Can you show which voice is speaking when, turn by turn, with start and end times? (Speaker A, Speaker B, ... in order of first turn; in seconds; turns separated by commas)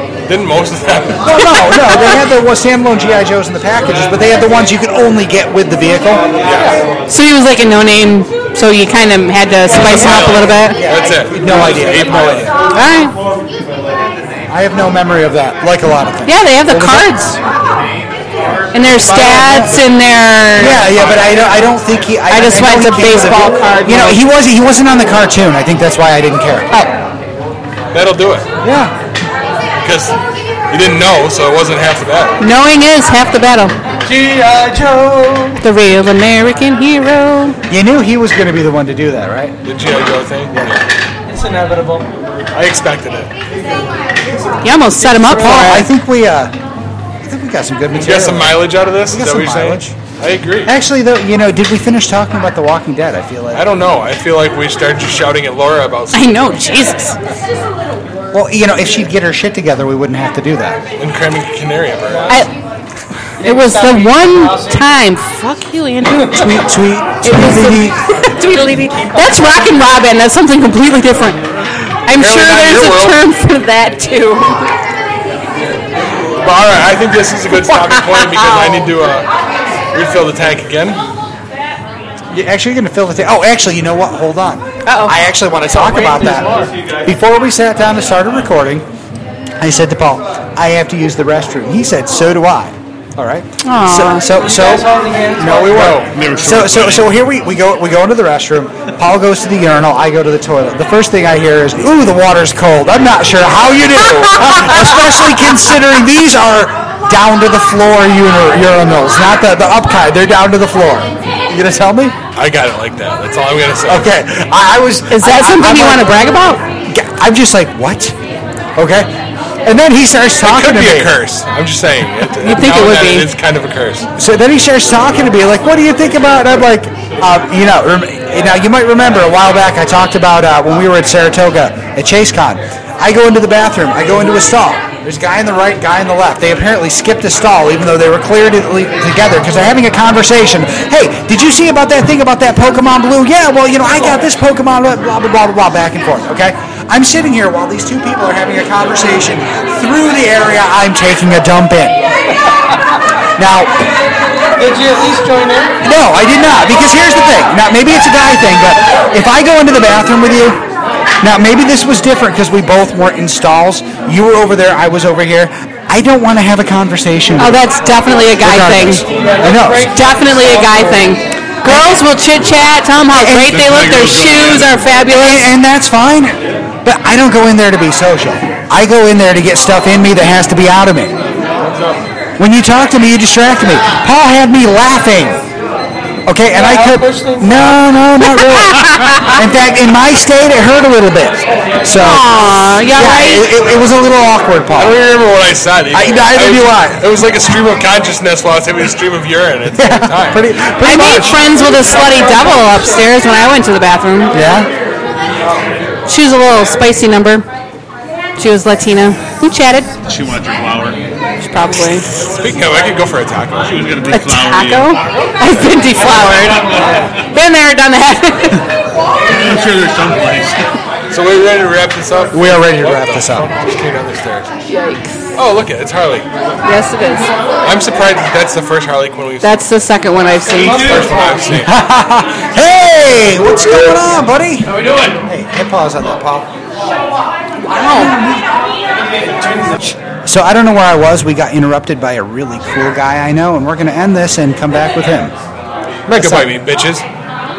Speaker A: 0.2-1.4, Speaker B: 1.1-6.3, Speaker C: 1.4-2.2, Speaker A: 6.4-6.8, Speaker C: 7.1-10.8, Speaker A: 9.7-12.5, Speaker B: 9.9-12.5, Speaker C: 12.7-13.1, Speaker B: 14.5-17.1, Speaker C: 16.2-17.4, Speaker C: 18.7-20.9, Speaker B: 19.0-19.8, Speaker B: 20.6-26.7, Speaker C: 22.3-24.2, Speaker A: 27.9-28.5, Speaker B: 28.6-28.9, Speaker A: 29.8-30.1, Speaker A: 30.7-32.4, Speaker C: 32.4-33.7, Speaker D: 34.0-35.6, Speaker C: 35.6-37.6, Speaker B: 37.7-39.6, Speaker A: 39.6-40.8, Speaker D: 41.3-42.0, Speaker A: 42.5-43.3, Speaker C: 44.6-45.9, Speaker D: 45.0-45.8, Speaker B: 45.3-46.5, Speaker B: 47.2-49.9, Speaker A: 47.9-50.7, Speaker B: 50.6-53.6, Speaker A: 53.5-56.5, Speaker C: 56.1-57.1, Speaker B: 58.3-60.8, Speaker A: 61.0-62.4, Speaker D: 62.1-62.5, Speaker D: 63.4-64.9, Speaker C: 63.4-66.6, Speaker B: 66.3-68.2, Speaker C: 67.2-71.4, Speaker D: 68.4-69.7, Speaker C: 72.0-74.7, Speaker A: 72.1-73.2, Speaker A: 76.4-79.3, Speaker A: 79.9-81.0, Speaker B: 82.3-88.9, Speaker C: 84.9-85.1, Speaker D: 85.7-86.7, Speaker B: 89.6-112.2, Speaker C: 93.6-94.2, Speaker D: 94.2-96.0, Speaker A: 95.7-96.1, Speaker E: 96.0-97.1, Speaker A: 112.3-114.1, Speaker B: 113.9-118.2, Speaker C: 115.1-116.6, Speaker B: 118.8-119.1, Speaker B: 119.7-121.2, Speaker A: 120.4-124.1, Speaker C: 122.4-123.3, Speaker B: 124.2-152.0, Speaker B: 153.4-153.9, Speaker D: 154.6-155.8, Speaker B: 155.8-160.6, Speaker B: 161.2-167.6, Speaker C: 167.4-169.0, Speaker B: 168.4-169.9, Speaker D: 169.0-171.2, Speaker C: 169.9-175.5, Speaker B: 171.6-172.0, Speaker B: 173.1-173.7, Speaker E: 173.5-174.9, Speaker B: 175.1-181.2, Speaker A: 181.6-182.0, Speaker B: 182.4-185.4, Speaker B: 186.2-195.0, Speaker D: 186.5-187.8, Speaker C: 188.2-189.4, Speaker C: 191.9-193.5, Speaker A: 194.7-200.4, Speaker B: 195.9-197.1, Speaker B: 199.8-201.4, Speaker C: 200.8-204.3, Speaker D: 201.4-203.1, Speaker B: 204.3-204.7, Speaker C: 206.1-207.4, Speaker C: 208.4-209.9, Speaker E: 210.0-211.0, Speaker C: 211.4-212.1, Speaker A: 211.9-214.0, Speaker E: 213.6-217.1, Speaker C: 214.1-218.7, Speaker E: 219.3-220.6, Speaker A: 221.1-224.5, Speaker B: 222.3-223.5, Speaker C: 224.7-225.3, Speaker A: 225.3-226.3, Speaker C: 226.6-227.3, Speaker A: 227.6-229.6, Speaker C: 229.4-231.2, Speaker A: 230.5-231.7, Speaker D: 230.9-231.3, Speaker B: 231.5-236.5, Speaker C: 237.6-238.2, Speaker B: 237.9-238.5, Speaker B: 239.8-245.3, Speaker A: 246.1-247.0, Speaker B: 246.1-246.5